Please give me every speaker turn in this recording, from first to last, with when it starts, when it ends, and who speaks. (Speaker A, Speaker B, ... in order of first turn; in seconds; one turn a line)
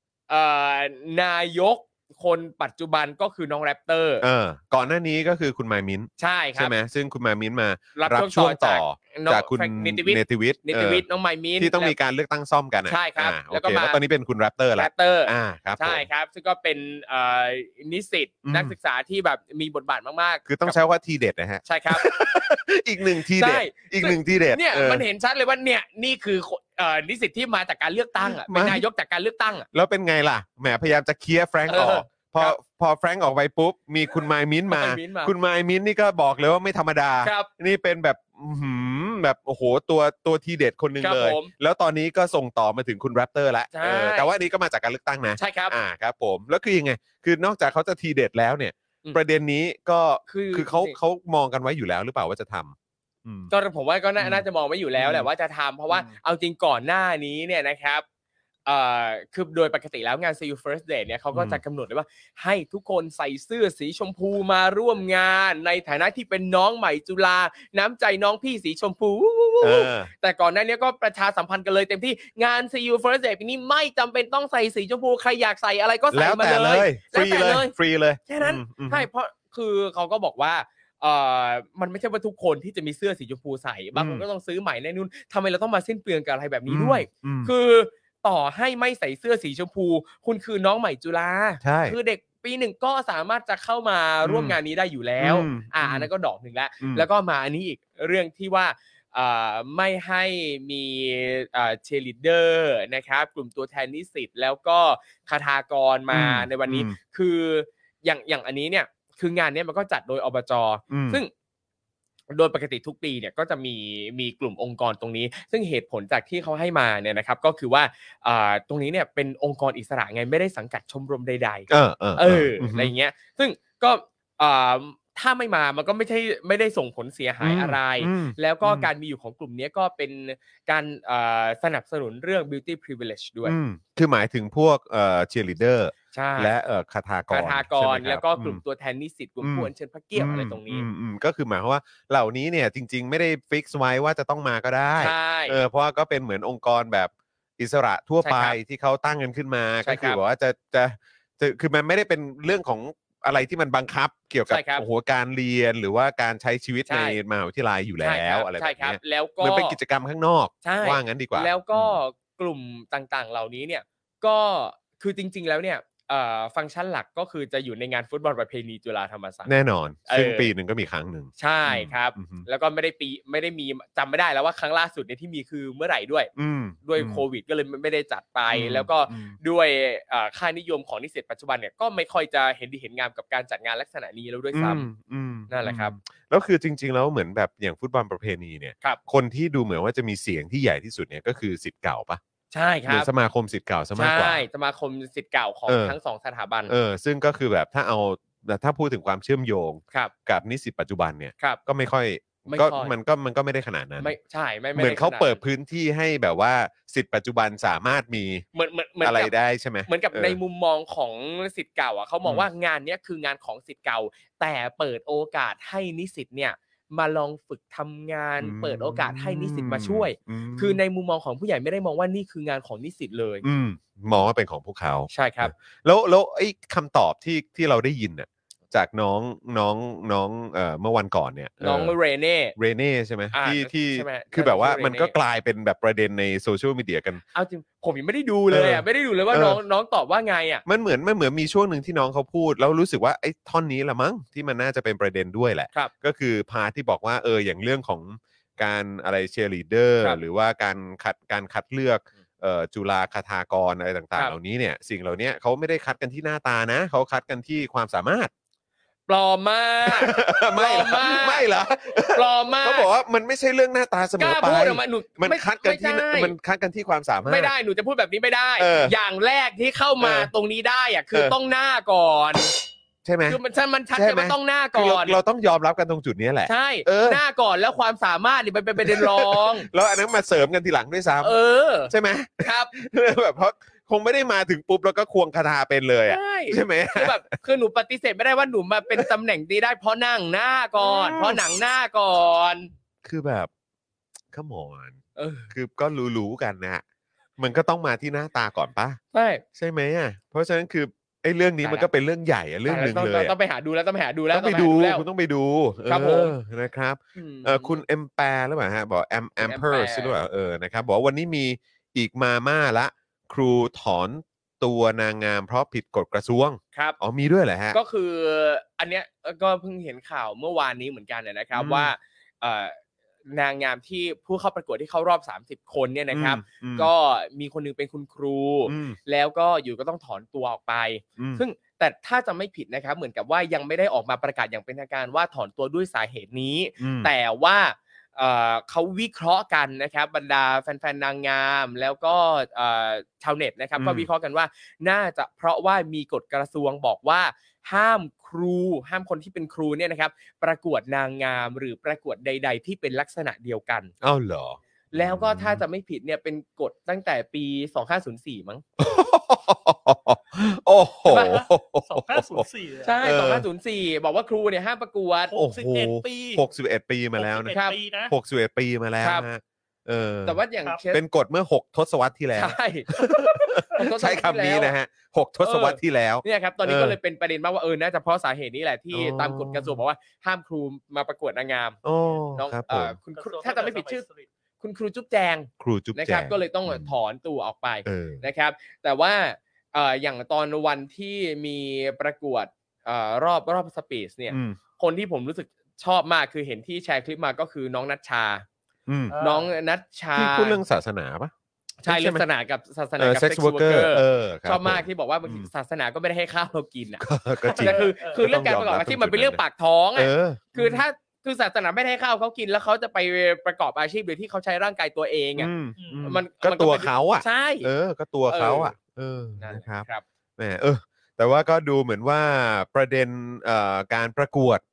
Speaker A: 0.3-4.2
Speaker B: 4.2-11.0
Speaker A: 6.2-6.7
Speaker A: 8.0-11.9
Speaker B: 11.6-16.1
Speaker A: 12.9-14.0
Speaker A: 14.8-20.8
Speaker B: 18.4-18.7
Speaker B: 20.5-25.1
Speaker A: 21.6-22.4
Speaker A: 23.2-29.7
Speaker B: 28.2-28.9
Speaker B: 29.7-53.5
Speaker A: 31.7-32.6
Speaker A: 34.7-35.3
Speaker A: 37.2-37.5
Speaker A: 41.0-41.5
Speaker A: 43.7-44.3
Speaker A: 45.4-45.8
Speaker A: 50.3-51.0
Speaker A: 53.5-58.0
Speaker B: 54.2-54.5
Speaker B: 55.0-55.3
Speaker A: 58.7-77.7
Speaker B: 61.3-61.6
Speaker B: 69.6-70.1
Speaker B: 76.1-79.1
Speaker A: 78.3-111.3
Speaker B: 84.0-84.2
Speaker B: 86.7-87.5
Speaker B: 91.6-92.0
Speaker B: 94.2-94.6
Speaker B: 95.2-96.1
Speaker B: 96.8-97.1
Speaker B: 106.1-107.0
Speaker B: 110.9-111.2
Speaker A: 112.3-133.6
Speaker B: 121.7-122.9
Speaker B: 127.4-128.9
Speaker B: 133.4-138.6
Speaker A: 136.1-136.5
Speaker A: 137.3-140.9
Speaker B: 139.4-162.0
Speaker A: 145.0-145.6
Speaker A: 148.2-148.6
Speaker A: 149.8-150.2
Speaker A: 154.5-154.8
Speaker A: 156.9-157.2
Speaker A: 158.0-159.8
Speaker A: 160.6-169.5
Speaker B: 169.5-172.5
Speaker A: 170.1-170.5
Speaker A: 171.4-176.3
Speaker B: 176.4-177.2
Speaker A: 176.8-184.9
Speaker B: 178.5-179.4
Speaker B: 184.5-192.2
Speaker A: 185.5-185.9
Speaker A: 192.5-193.1
Speaker B: 192.9-194.4
Speaker A: 194.0-196.7
Speaker B: 195.7-196.0
Speaker B: 196.7-204.1
Speaker A: 202.5-202.9
Speaker A: 204.0-205.4
Speaker B: 204.8-208.4
Speaker A: 208.5-209.3
Speaker B: 209.0-210.4
Speaker A: 209.9-223.4
Speaker B: 218.4-220.8
Speaker B: 223.4-231.9
Speaker A: 225.1-225.5
Speaker A: 231.6-232.6
Speaker B: 232.6-237.2
Speaker A: 233.3-235.1
Speaker A: 237.3-240.6
Speaker B: 238.5-239.6
Speaker B: 240.7-258.3
Speaker A: 259.1-261.5
Speaker B: 259.9-267.5
Speaker A: 262.1-262.9
Speaker A: 264.2-266.3
Speaker A: 267.2-272.5
Speaker B: 268.6-268.9
Speaker B: 270.0-270.3
Speaker B: 273.1-273.4
Speaker A: 273.3-275.2
Speaker B: 273.9-277.2
Speaker A: 276.5-279.7
Speaker B: 278.8-281.4
Speaker A: 281.2-282.7
Speaker B: 281.9-287.2
Speaker A: 286.1-292.7
Speaker B: 290.8-291.4
Speaker B: 293.0-293.5
Speaker B: 294.3-295.0
Speaker A: 295.2-295.5
Speaker B: 295.5-296.8
Speaker B: 297.4-299.0
Speaker A: 299.1-299.4
Speaker B: 299.6-303.3
Speaker A: 301.6-301.9
Speaker A: 302.7-305.1
Speaker B: 304.3-317.8
Speaker A: 305.9-306.3
Speaker A: 307.2-307.8
Speaker A: 309.4-310.1
Speaker A: 317.7-353.9
Speaker B: 321.6-321.9
Speaker B: 326.1-326.9
Speaker B: 328.7-329.0
Speaker B: 331.2-331.4
Speaker B: 336.8-337.1
Speaker B: 343.8-344.1
Speaker B: 354.0-355.6
Speaker A: 354.9-358.6
Speaker B: 358.8-362.5
Speaker A: 361.1-361.4
Speaker C: 361.1-363.0
Speaker A: 362.8-365.3
Speaker B: 363.0-363.5
Speaker C: 365.3-366.4
Speaker B: 365.4-367.5
Speaker C: 367.2-368.1
Speaker A: 367.5-367.8
Speaker B: 368.1-370.4
Speaker A: 369.0-369.3
Speaker A: 370.2-371.0
Speaker B: 370.9-377.0
Speaker A: 372.4-374.7
Speaker A: 375.4-381.8
Speaker B: 378.9-379.8
Speaker B: 381.8-383.0
Speaker A: 382.4-384.1
Speaker C: 383.1-384.3
Speaker A: 384.6-398.5
Speaker B: 385.6-386.9
Speaker B: 387.9-388.2
Speaker B: 394.3-394.6
Speaker B: 398.9-399.2
Speaker C: 399.1-399.5
Speaker A: 399.2-400.6
Speaker B: 400.2-401.3
Speaker A: 401.8-415.5
Speaker B: 401.9-402.2
Speaker B: 403.0-405.5
Speaker B: 407.0-409.4
Speaker C: 407.5-408.3
Speaker B: 409.9-410.9
Speaker B: 415.4-419.9
Speaker C: 415.8-416.2
Speaker A: 416.0-417.7
Speaker A: 418.3-418.7
Speaker A: 419.4-420.0
Speaker B: 420.4-424.6